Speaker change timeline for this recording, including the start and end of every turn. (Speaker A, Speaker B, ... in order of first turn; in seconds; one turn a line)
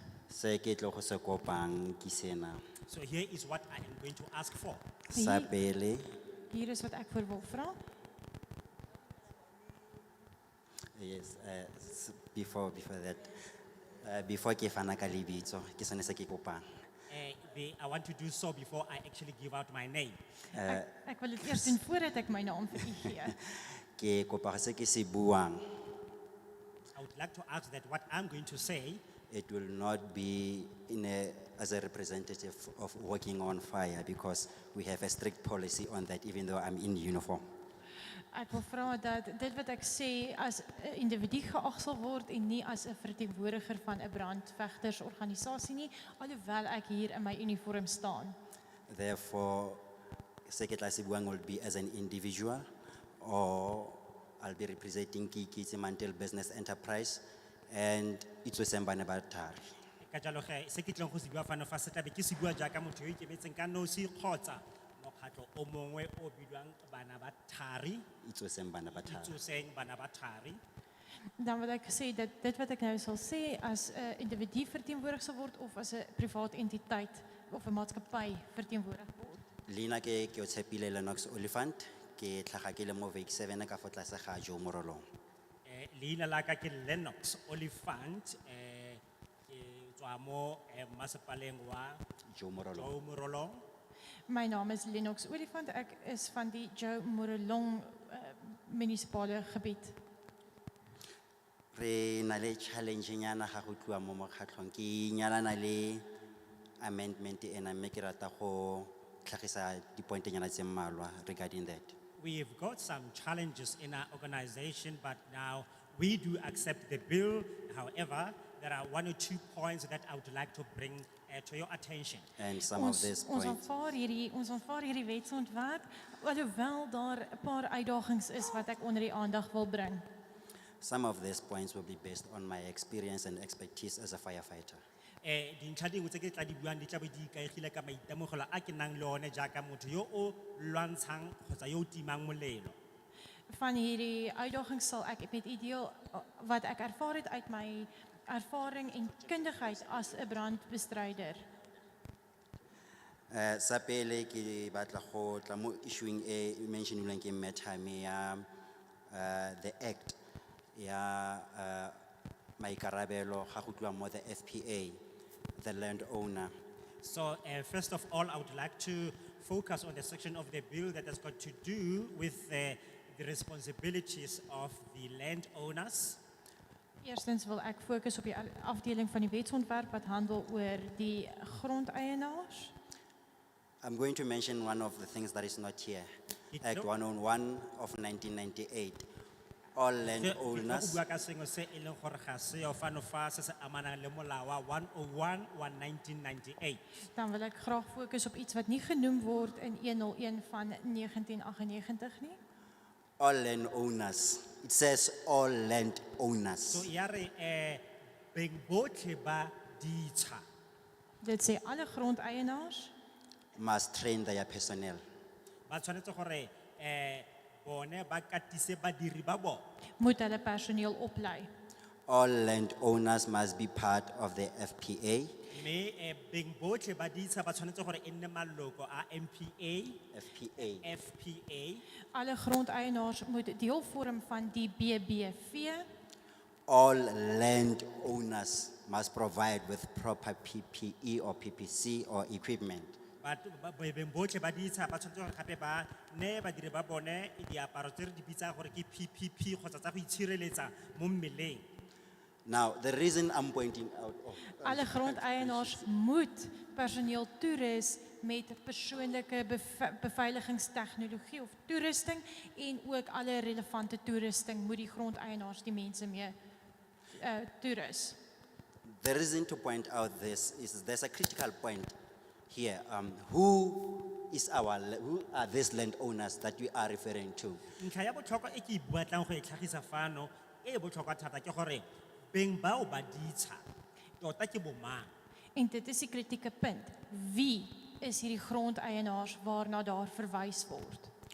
Speaker A: 0.3-2.6
Speaker B: 2.9-4.8
Speaker A: 5.1-6.2
Speaker C: 5.1-5.5
Speaker C: 6.5-7.8
Speaker A: 10.9-13.3
Speaker A: 14.0-16.6
Speaker B: 17.1-20.2
Speaker A: 20.5-20.9
Speaker C: 20.6-23.4
Speaker A: 23.1-25.9
Speaker B: 26.9-29.0
Speaker A: 29.3-37.5
Speaker C: 38.3-48.4
Speaker A: 48.9-49.8
Speaker A: 50.5-52.6
Speaker A: 53.2-59.8
Speaker B: 60.0-68.0
Speaker A: 68.2-69.3
Speaker B: 68.9-70.6
Speaker C: 71.4-79.5
Speaker A: 79.7-85.0
Speaker B: 85.6-92.0
Speaker A: 92.3-92.9
Speaker B: 92.7-93.6
Speaker C: 94.3-100.0
Speaker A: 101.7-106.0
Speaker A: 106.8-111.9
Speaker B: 112.2-122.3
Speaker A: 122.4-123.6
Speaker C: 122.7-130.1
Speaker A: 130.8-134.8
Speaker B: 135.2-142.8
Speaker C: 143.5-151.4
Speaker A: 153.3-158.5
Speaker A: 159.1-160.2
Speaker A: 160.7-162.0
Speaker A: 162.6-165.0
Speaker A: 165.6-166.5
Speaker B: 167.0-176.2
Speaker C: 177.0-182.7
Speaker A: 183.8-186.1
Speaker B: 186.5-186.9
Speaker A: 186.6-189.1
Speaker A: 189.7-191.0
Speaker B: 190.1-196.8
Speaker C: 197.1-202.4
Speaker A: 203.2-206.9
Speaker B: 206.6-210.4
Speaker C: 211.2-212.9
Speaker A: 213.5-215.0
Speaker B: 215.7-219.6
Speaker C: 220.0-221.5
Speaker A: 222.1-225.4
Speaker B: 225.5-230.0
Speaker A: 230.1-230.9
Speaker B: 230.8-231.8
Speaker C: 232.1-235.8
Speaker A: 236.7-243.0
Speaker B: 243.2-251.7
Speaker A: 252.4-255.8
Speaker C: 254.6-266.3
Speaker C: 267.1-268.2
Speaker A: 268.9-271.9
Speaker A: 272.5-277.6
Speaker B: 277.8-283.6
Speaker B: 284.2-285.1
Speaker C: 285.5-291.1